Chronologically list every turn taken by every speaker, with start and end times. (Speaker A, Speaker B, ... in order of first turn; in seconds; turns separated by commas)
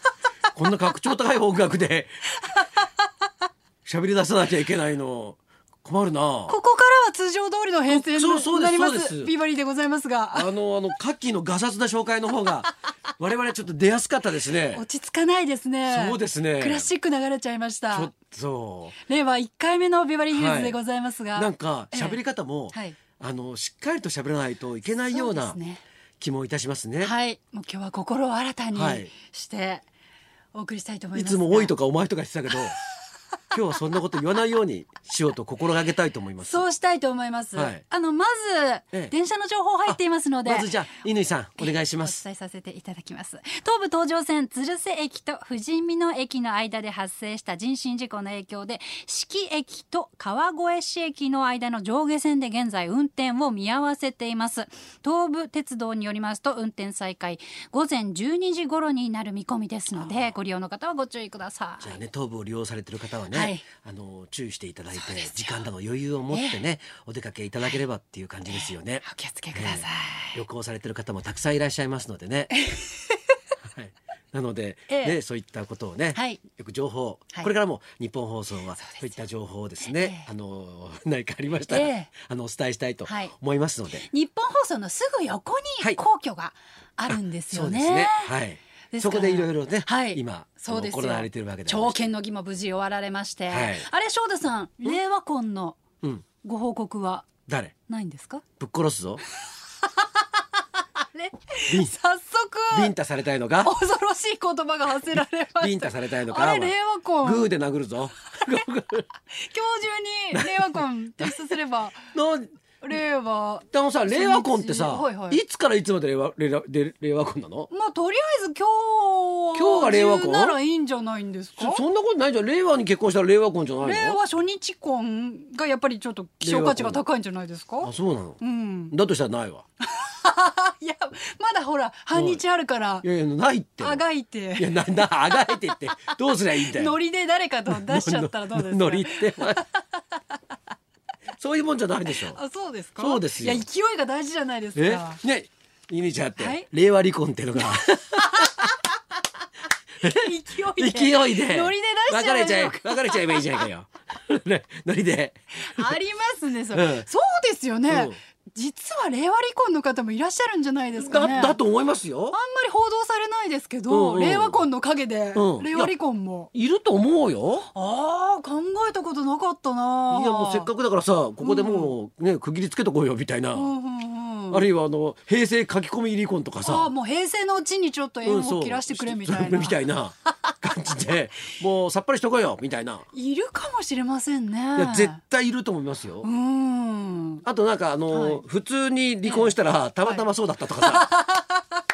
Speaker A: 0.5-2.3, Speaker B: 2.5-2.9, Speaker A: 3.9-6.6, Speaker B: 6.5-10.5, Speaker A: 7.9-9.3, Speaker A: 10.3-14.8, Speaker B: 14.7-18.1, Speaker A: 15.9-16.9, Speaker A: 17.9-19.0, Speaker B: 19.0-22.2, Speaker A: 20.3-20.8, Speaker A: 21.4-25.6, Speaker B: 22.7-23.0, Speaker B: 25.1-25.8, Speaker A: 26.2-27.1, Speaker B: 27.0-29.9, Speaker A: 28.7-29.1, Speaker B: 30.5-31.7, Speaker A: 31.1-32.8, Speaker A: 33.5-36.6, Speaker B: 36.4-40.8, Speaker A: 37.5-37.8, Speaker A: 40.5-42.2, Speaker B: 41.6-62.0, Speaker A: 60.0-60.3, Speaker A: 61.8-72.5, Speaker B: 63.3-63.6, Speaker B: 65.0-65.6, Speaker B: 66.3-66.6, Speaker B: 68.5-70.4, Speaker B: 72.5-73.2, Speaker A: 73.7-84.1, Speaker B: 74.9-75.2, Speaker B: 76.1-76.4, Speaker B: 78.8-79.1, Speaker B: 79.8-80.3, Speaker B: 81.7-82.1, Speaker B: 83.1-83.3, Speaker B: 84.0-88.3, Speaker A: 87.1-92.1, Speaker B: 88.9-95.8, Speaker A: 93.5-93.9, Speaker B: 96.4-97.3, Speaker A: 97.5-97.7, Speaker B: 97.9-98.4, Speaker A: 98.6-99.2, Speaker B: 99.8-100.4, Speaker B: 101.0-102.9, Speaker A: 101.7-101.9, Speaker A: 102.7-103.7, Speaker B: 103.6-107.5, Speaker A: 105.6-109.1, Speaker B: 109.3-112.1, Speaker A: 110.3-111.5, Speaker A: 112.1-112.5, Speaker B: 112.8-115.4, Speaker A: 113.7-117.7, Speaker B: 117.7-121.8, Speaker A: 119.5-120.6, Speaker A: 121.6-124.2, Speaker B: 123.8-128.9, Speaker A: 126.4-127.0, Speaker A: 127.8-129.6, Speaker B: 129.9-133.1, Speaker A: 132.1-132.4, Speaker A: 133.0-134.0, Speaker B: 133.8-135.8, Speaker A: 134.6-137.0, Speaker B: 136.5-140.0, Speaker A: 137.7-139.6, Speaker A: 141.4-142.4, Speaker B: 142.1-145.2, Speaker A: 143.0-143.6, Speaker A: 144.8-148.5, Speaker B: 146.4-146.7, Speaker B: 147.6-148.8, Speaker A: 150.0-155.9, Speaker B: 150.0-153.7, Speaker B: 155.6-161.6, Speaker A: 156.7-157.1, Speaker A: 157.9-158.2, Speaker A: 161.0-162.4, Speaker B: 162.3-166.5, Speaker A: 163.9-164.6, Speaker A: 165.3-165.9, Speaker A: 166.5-167.7, Speaker B: 167.7-170.7, Speaker A: 170.1-173.7, Speaker B: 171.4-171.9, Speaker B: 173.5-174.7, Speaker A: 174.5-176.9, Speaker B: 176.6-179.8, Speaker A: 178.2-183.1, Speaker B: 183.1-185.2, Speaker A: 184.8-186.3, Speaker B: 186.2-187.4, Speaker A: 187.4-191.1, Speaker B: 188.1-188.4, Speaker B: 189.2-190.2, Speaker B: 190.8-191.8